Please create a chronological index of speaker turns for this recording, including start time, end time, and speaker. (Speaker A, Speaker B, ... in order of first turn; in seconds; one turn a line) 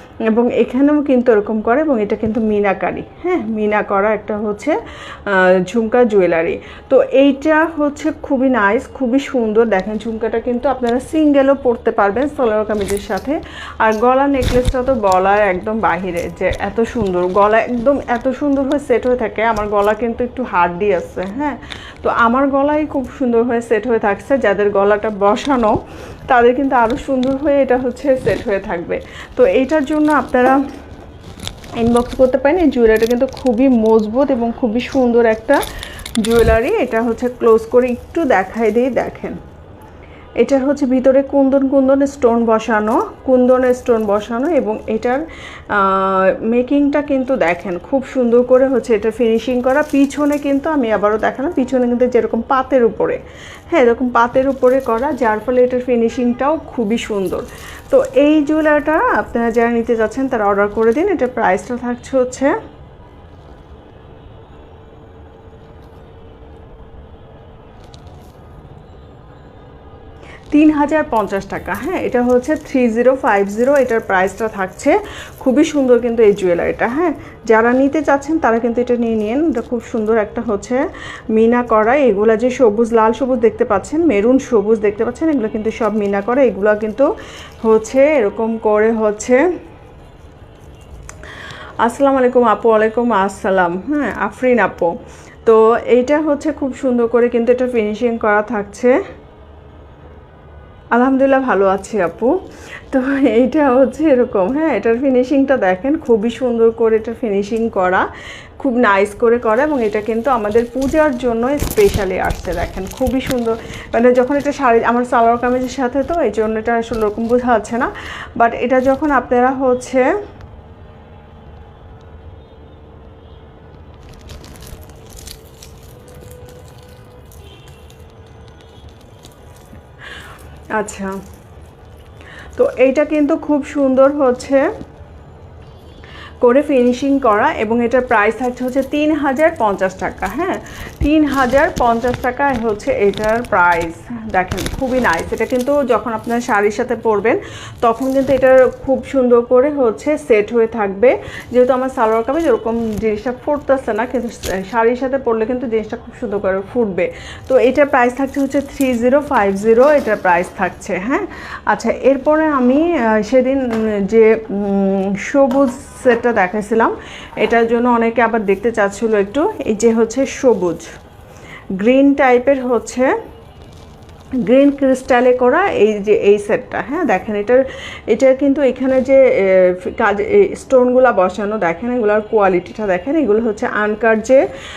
Speaker A: 0.3-25.8
Speaker A: 26.3-30.6
Speaker A: 31.8-35.6
Speaker A: 36.2-39.4
Speaker A: 40.4-62.5
Speaker A: 70.5-87.1
Speaker A: 87.6-89.4
Speaker A: 91.8-98.9
Speaker A: 100.9-102.3
Speaker A: 102.9-108.0
Speaker A: 108.6-120.0
Speaker A: 130.8-131.2
Speaker A: 132.6-134.7
Speaker A: 136.4-170.9
Speaker A: 171.8-173.1
Speaker A: 174.4-184.4